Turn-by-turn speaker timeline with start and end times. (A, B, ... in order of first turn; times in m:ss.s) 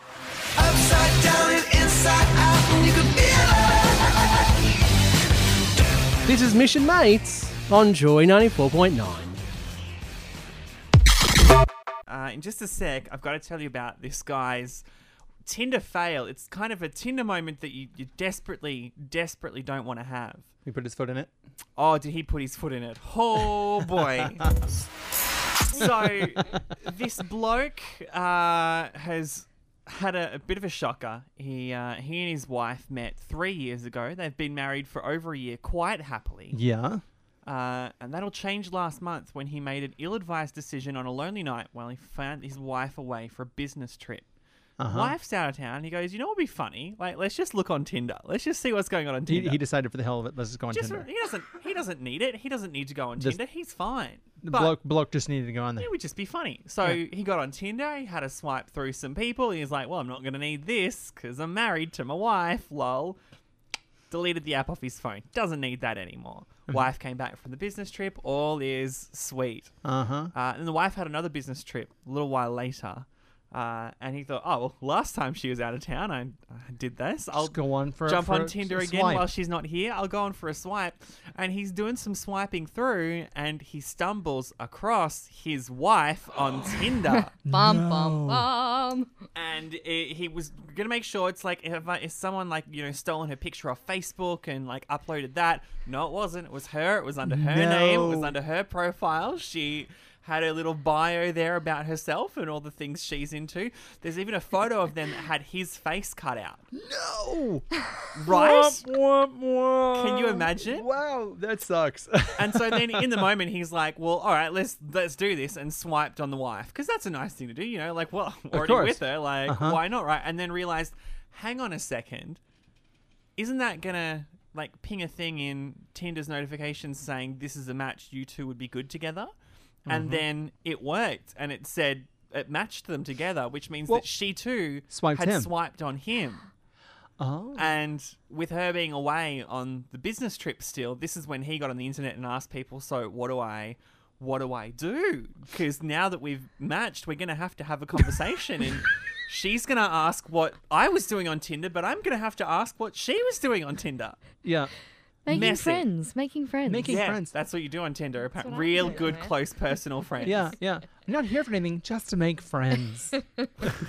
0:00.7-0:03.6 A
0:06.2-0:09.3 B
0:12.1-0:14.8 C
0:15.4-0:20.4 C
0:20.6-0:21.3 D
0:21.8-0:24.5 C
0:25.7-0:36.6 C
0:36.5-0:37.0 D
0:37.4-0:44.2 C
0:44.8-0:45.2 D
0:44.9-0:49.6 C
0:49.3-0:51.1 D
0:50.7-0:54.8 C
0:54.4-0:55.9 D
0:55.8-1:03.2 C
1:04.1-1:09.7 C
1:09.8-1:10.3 D
1:10.3-1:27.3 C
1:17.3-1:19.3 D
1:27.1-1:29.2 E
1:27.4-1:28.5 D
1:29.3-1:46.6 C
1:37.2-1:38.4 D
1:46.7-1:53.2 D
1:48.2-1:48.8 C
1:49.9-1:50.8 C
1:52.4-2:02.4 C
1:58.5-1:59.8 D
2:03.4-2:09.3 C
2:09.9-2:10.2 D
2:09.9-2:16.5 C
2:14.9-2:15.5 D
2:17.2-2:17.7 D
2:17.5-2:34.2 C
2:34.4-2:34.7 D
2:35.2-2:37.0 E
2:35.3-2:35.9 C
2:36.6-2:37.3 D
2:36.8-2:40.5 C
2:38.4-2:39.4 E
2:40.2-2:43.7 D